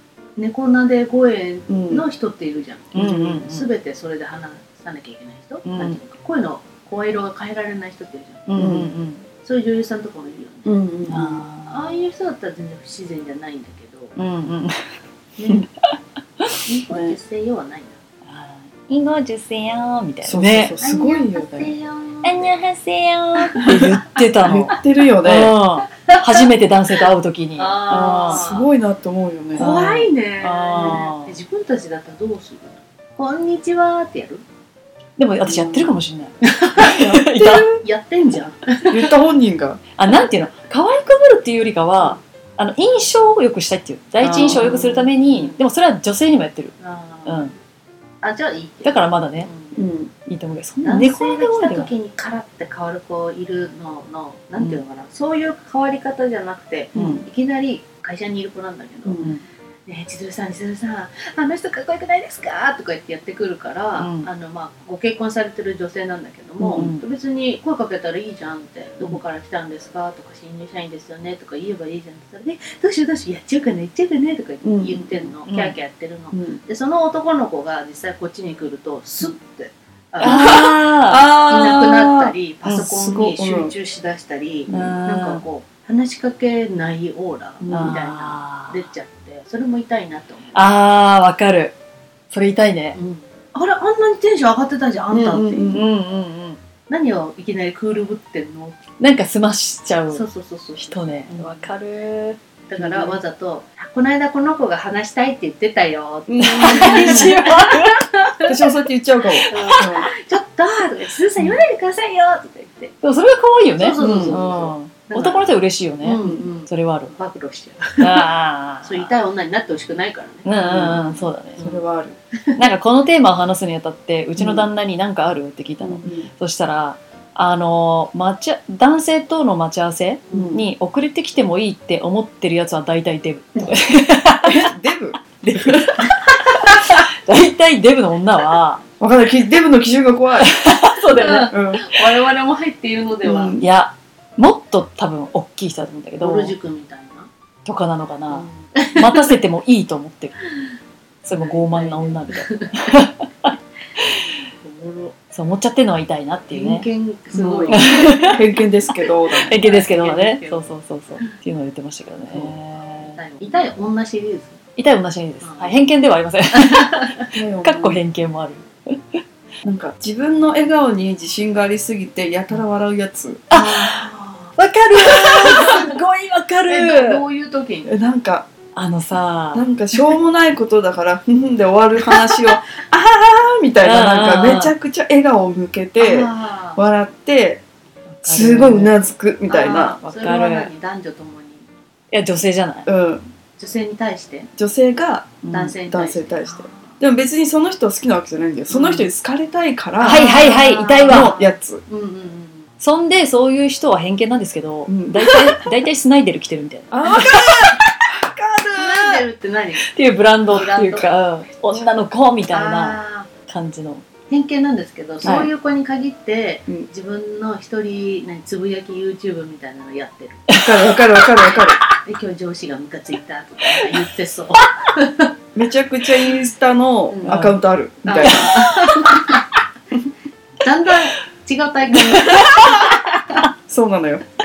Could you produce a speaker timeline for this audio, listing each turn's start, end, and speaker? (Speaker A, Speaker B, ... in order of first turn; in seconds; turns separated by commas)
Speaker A: 0.4-8.8, Speaker B: 1.7-2.0, Speaker C: 2.9-3.7, Speaker B: 2.9-3.5, Speaker C: 5.6-6.0, Speaker C: 8.5-9.2, Speaker B: 8.6-8.9, Speaker A: 9.4-10.8, Speaker B: 10.6-11.4, Speaker C: 11.1-12.0, Speaker A: 11.7-14.2, Speaker C: 14.2-14.8, Speaker A: 15.4-15.7, Speaker C: 16.4-17.1, Speaker A: 16.6-17.9, Speaker C: 18.2-20.8, Speaker B: 20.2-21.7, Speaker A: 20.8-22.6, Speaker C: 22.2-28.4, Speaker B: 23.7-25.5, Speaker A: 26.1-26.5, Speaker A: 27.6-28.7, Speaker B: 28.3-29.8, Speaker A: 29.5-34.4, Speaker C: 29.6-31.4, Speaker C: 35.2-37.8, Speaker B: 35.4-35.9, Speaker A: 36.4-39.1, Speaker B: 36.8-37.6, Speaker B: 38.9-39.8, Speaker C: 40.0-46.7, Speaker B: 44.2-45.1, Speaker A: 44.2-45.6, Speaker A: 46.8-47.5, Speaker C: 47.2-47.5, Speaker A: 48.2-49.8, Speaker C: 48.8-49.5, Speaker B: 49.7-50.1, Speaker C: 50.2-51.9, Speaker A: 50.8-59.3, Speaker B: 56.9-57.2, Speaker B: 59.0-59.3, Speaker A: 59.9-90.8, Speaker C: 64.0-64.3, Speaker B: 66.6-66.9, Speaker C: 66.7-67.0, Speaker B: 74.6-75.2, Speaker C: 75.4-75.8, Speaker B: 76.3-76.6, Speaker C: 80.2-81.2, Speaker B: 80.2-83.7, Speaker B: 84.7-85.0, Speaker C: 84.7-85.4, Speaker B: 87.7-88.0, Speaker C: 87.7-88.8, Speaker C: 90.5-91.7, Speaker C: 92.3-93.0, Speaker A: 92.9-95.8, Speaker B: 95.1-95.8, Speaker C: 95.6-96.6, Speaker A: 96.9-98.8, Speaker C: 99.0-100.2, Speaker A: 100.1-101.7, Speaker C: 100.8-102.4, Speaker A: 102.7-108.6, Speaker B: 102.8-103.2, Speaker B: 106.3-107.4, Speaker C: 106.4-108.5, Speaker B: 108.5-110.1, Speaker C: 109.5-109.8, Speaker A: 109.5-113.0, Speaker C: 113.0-117.1, Speaker A: 113.7-118.3, Speaker B: 114.0-114.4, Speaker C: 118.0-119.1, Speaker A: 118.8-121.8, Speaker C: 120.4-121.6, Speaker B: 120.7-121.0, Speaker B: 121.6-122.2, Speaker C: 122.6-134.7, Speaker B: 124.4-124.7, Speaker B: 125.8-126.3, Speaker B: 130.3-130.6, Speaker B: 134.4-135.8, Speaker C: 135.4-138.8, Speaker B: 139.0-140.5, Speaker C: 140.4-141.5, Speaker A: 141.0-143.6, Speaker B: 141.5-141.9, Speaker B: 143.2-143.6, Speaker C: 143.5-146.5, Speaker A: 146.2-147.3, Speaker C: 147.6-150.3, Speaker A: 148.3-149.3, Speaker C: 151.2-154.3, Speaker A: 151.3-153.0, Speaker A: 154.6-155.1, Speaker C: 155.3-156.8, Speaker A: 156.5-158.4, Speaker B: 157.3-159.6, Speaker C: 157.7-158.4, Speaker A: 159.3-160.6, Speaker C: 159.4-163.2, Speaker A: 162.3-164.6, Speaker C: 164.8-169.2, Speaker A: 165.4-165.9, Speaker A: 166.5-167.3, Speaker B: 167.3-168.0, Speaker B: 169.6-173.4, Speaker A: 173.5-175.9, Speaker C: 173.5-174.0, Speaker C: 174.6-177.2, Speaker A: 176.7-178.1, Speaker B: 177.8-178.5, Speaker C: 178.7-179.7, Speaker B: 179.5-187.6, Speaker A: 182.1-182.6, Speaker C: 183.8-184.7, Speaker A: 186.0-186.8, Speaker C: 188.1-188.9, Speaker B: 188.2-190.0, Speaker A: 189.5-191.7, Speaker C: 190.0-190.7, Speaker C: 192.1-192.9, Speaker B: 192.8-193.3, Speaker A: 193.6-194.5, Speaker B: 194.6-200.4, Speaker A: 195.5-197.0, Speaker A: 198.7-199.1, Speaker C: 200.0-201.3, Speaker A: 200.0-202.7, Speaker B: 201.1-201.8, Speaker C: 202.8-207.9, Speaker B: 204.9-205.7, Speaker B: 206.9-209.2, Speaker A: 208.7-209.9, Speaker C: 209.9-214.1, Speaker A: 210.5-211.1, Speaker A: 212.5-213.3, Speaker A: 214.3-220.5, Speaker C: 215.2-215.5, Speaker B: 220.5-221.8, Speaker A: 222.0-225.3, Speaker B: 225.5-228.6, Speaker A: 227.1-227.4, Speaker C: 227.2-227.6, Speaker A: 228.0-229.4, Speaker A: 230.6-233.0, Speaker C: 232.0-232.9, Speaker B: 233.7-234.2